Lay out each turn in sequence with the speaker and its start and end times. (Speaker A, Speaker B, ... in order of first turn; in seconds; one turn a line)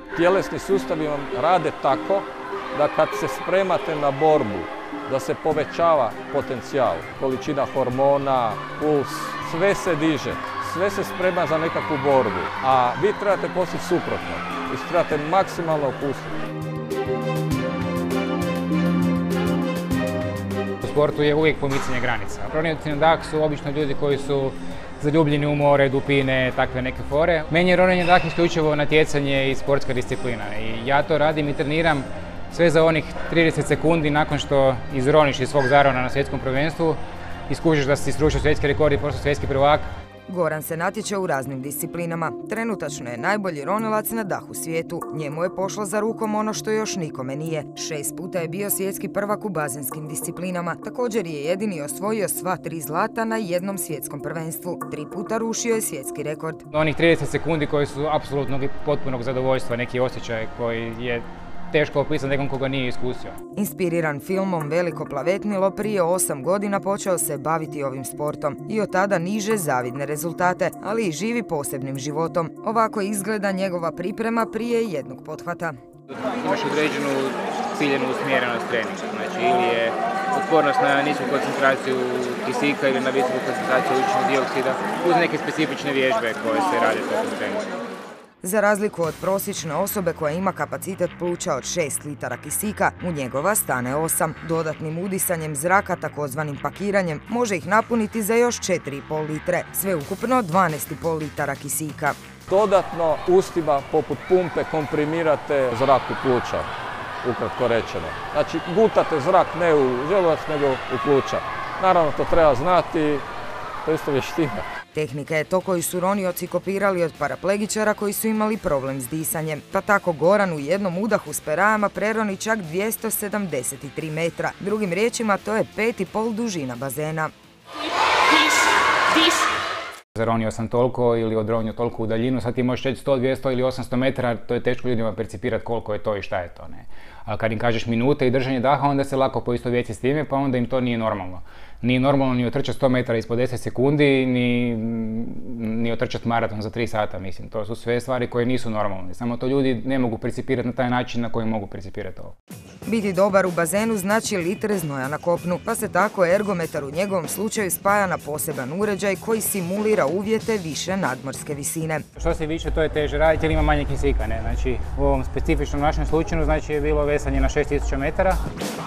Speaker A: 0.1-16.3
Speaker B: 20.8-39.9
Speaker C: 40.3-56.6
Speaker B: 56.7-63.4
Speaker C: 63.5-75.7
Speaker B: 76.2-87.7
Speaker C: 88.4-102.2
Speaker A: 102.5-106.7
Speaker A: 107.2-113.2
Speaker A: 113.8-114.6
Speaker C: 114.9-127.3
Speaker B: 130.1-152.3
Speaker C: 152.8-162.0
Speaker B: 162.2-168.4